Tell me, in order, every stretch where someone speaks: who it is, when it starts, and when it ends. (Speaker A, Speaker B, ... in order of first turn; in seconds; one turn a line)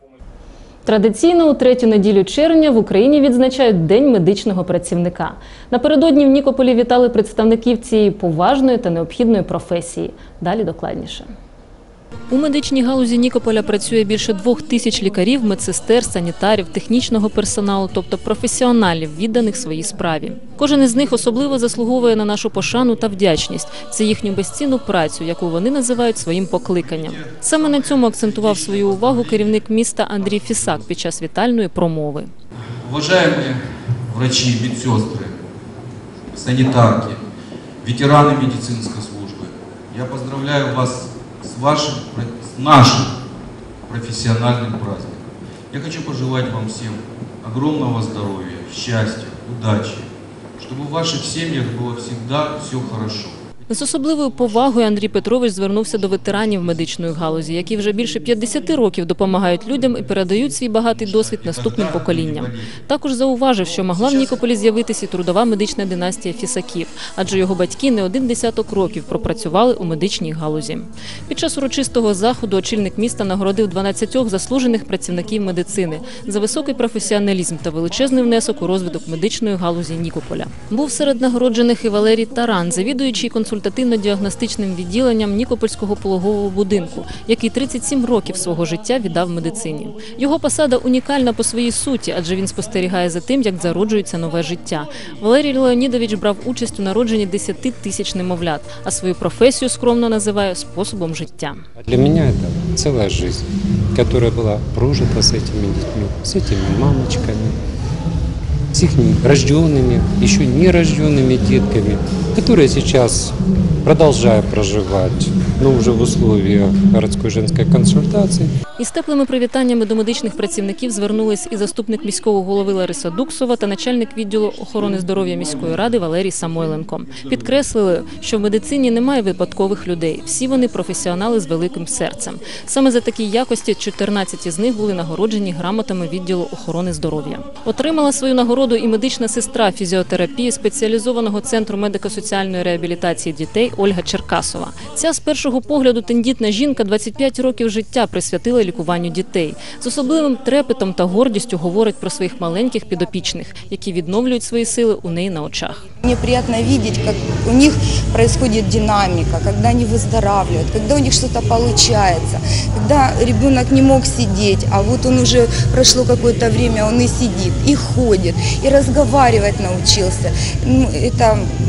Speaker A: 0.8-11.3
Speaker A: 12.3-32.3
Speaker B: 26.9-29.4
Speaker B: 32.8-33.6
Speaker B: 34.1-35.3
Speaker B: 36.3-37.2
Speaker B: 37.8-43.1
Speaker B: 43.9-45.2
Speaker B: 45.8-50.0
Speaker B: 50.6-53.3
Speaker A: 53.7-101.6
Speaker B: 61.0-62.6
Speaker C: 101.8-107.6
Speaker C: 108.7-118.5
Speaker A: 118.8-155.8
Speaker D: 156.0-171.5